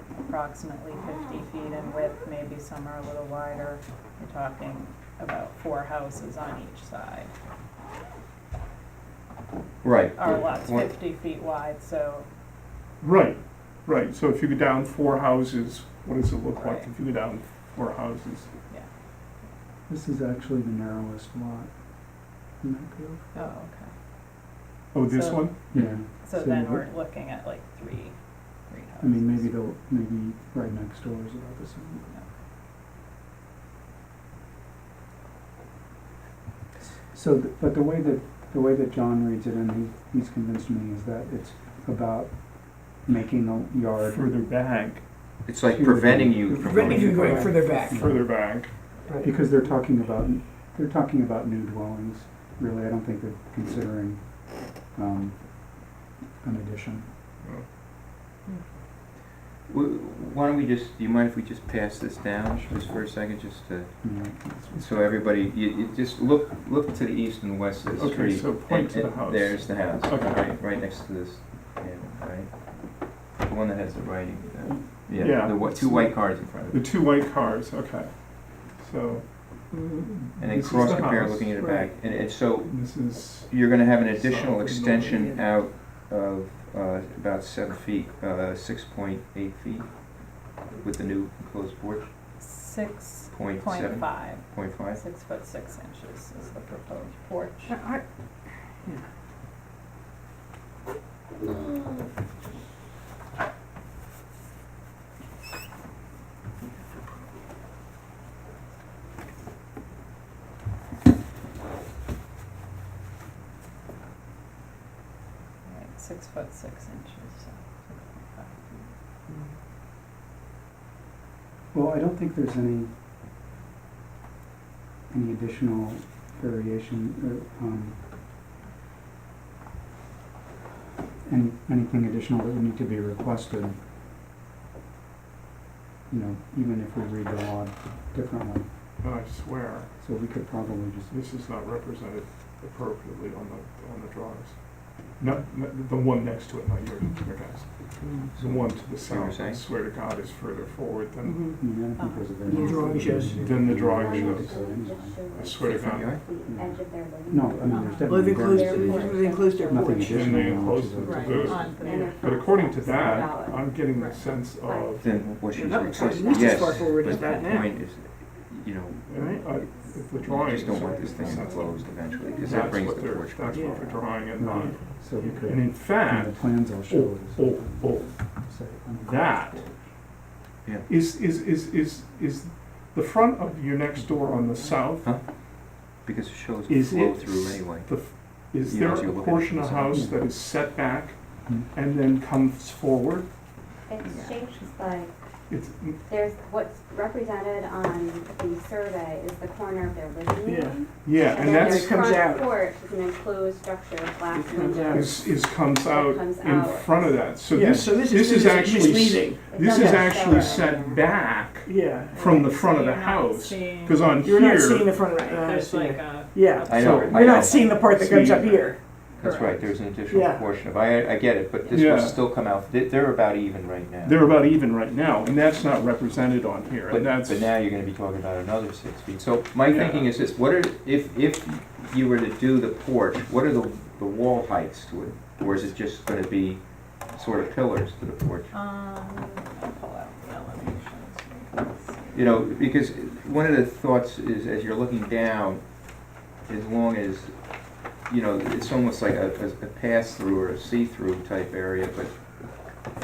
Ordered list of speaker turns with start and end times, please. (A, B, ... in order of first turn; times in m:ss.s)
0:00.2-0:07.3 A
0:09.8-0:10.9 B
0:10.2-0:12.2 A
0:13.0-0:18.5 C
0:16.5-0:16.9 A
0:19.9-0:23.3 D
0:23.3-0:23.9 A
0:24.9-0:25.7 C
0:25.1-0:29.5 A
0:25.7-0:26.9 D
0:29.0-0:32.1 D
0:36.9-0:44.3 D
0:44.0-0:45.1 C
0:45.4-0:47.4 B
0:45.6-0:57.1 D
0:46.5-0:48.0 E
0:47.1-0:48.7 C
0:59.7-1:04.2 B
1:04.0-1:04.9 D
1:04.5-1:04.8 C
1:04.8-1:16.8 B
1:07.9-1:10.6 C
1:15.1-1:21.6 C
1:19.7-1:20.1 E
1:20.4-1:22.8 B
1:21.6-1:21.9 E
1:22.6-1:25.4 C
1:23.4-1:32.1 B
1:32.4-1:37.8 A
1:33.3-1:35.0 B
1:37.7-1:38.0 E
1:55.6-1:58.9 A
2:01.7-2:02.9 D
2:05.1-2:08.0 D
2:11.2-2:13.8 D
2:16.1-2:18.7 D
2:19.0-2:19.9 C
2:20.0-2:21.1 D
2:21.1-2:31.5 C
2:28.0-2:28.3 E
2:28.3-2:29.6 B
2:31.2-2:31.6 E
2:31.6-2:35.3 D
2:32.0-2:32.8 A
2:32.4-2:33.4 E
2:32.9-2:34.6 C
2:33.5-2:40.7 F
2:35.3-2:36.1 C
2:35.6-2:36.3 B
2:36.4-2:41.7 D
2:37.7-2:38.1 A
2:38.0-2:40.2 E
2:40.0-2:45.4 C
2:41.0-2:42.2 A
2:41.6-2:43.7 F
2:43.9-2:44.2 A
2:44.5-2:45.0 F
2:45.0-2:53.8 B
2:45.5-2:47.7 E
2:45.9-2:47.4 F
2:49.1-2:54.8 C
2:49.1-2:49.5 E
2:50.5-2:52.7 F
2:53.5-2:54.8 E
2:54.4-2:59.8 D
2:55.4-2:58.3 C
2:58.9-2:59.7 C
3:00.9-3:05.1 C
3:04.0-3:04.8 D
3:05.0-3:07.9 B
3:06.7-3:13.3 C
3:08.4-3:10.0 B
3:09.9-3:10.2 D
3:11.4-3:11.7 D
3:13.9-3:15.1 F
3:14.1-3:14.5 A
3:15.5-3:16.0 C
3:16.1-3:27.2 F
3:20.4-3:20.8 E
3:20.9-3:22.0 C
3:21.7-3:22.5 E
3:24.3-3:25.1 E
3:24.9-3:34.9 C
3:27.5-3:30.1 E
3:29.4-3:31.0 F
3:30.3-3:30.6 A
3:31.6-3:32.3 E
3:32.1-3:34.0 A
3:34.2-3:38.8 E
3:35.2-3:39.7 A
3:36.7-3:37.7 B
3:36.7-3:37.1 C
3:37.9-3:38.5 C
3:39.2-3:44.2 B
3:40.1-3:40.5 E
3:41.7-3:42.3 C
3:44.0-3:47.6 C
3:46.9-3:58.5 B
3:49.6-3:50.1 C
3:58.5-4:02.4 A
4:02.1-4:05.8 B
4:06.4-4:12.1 B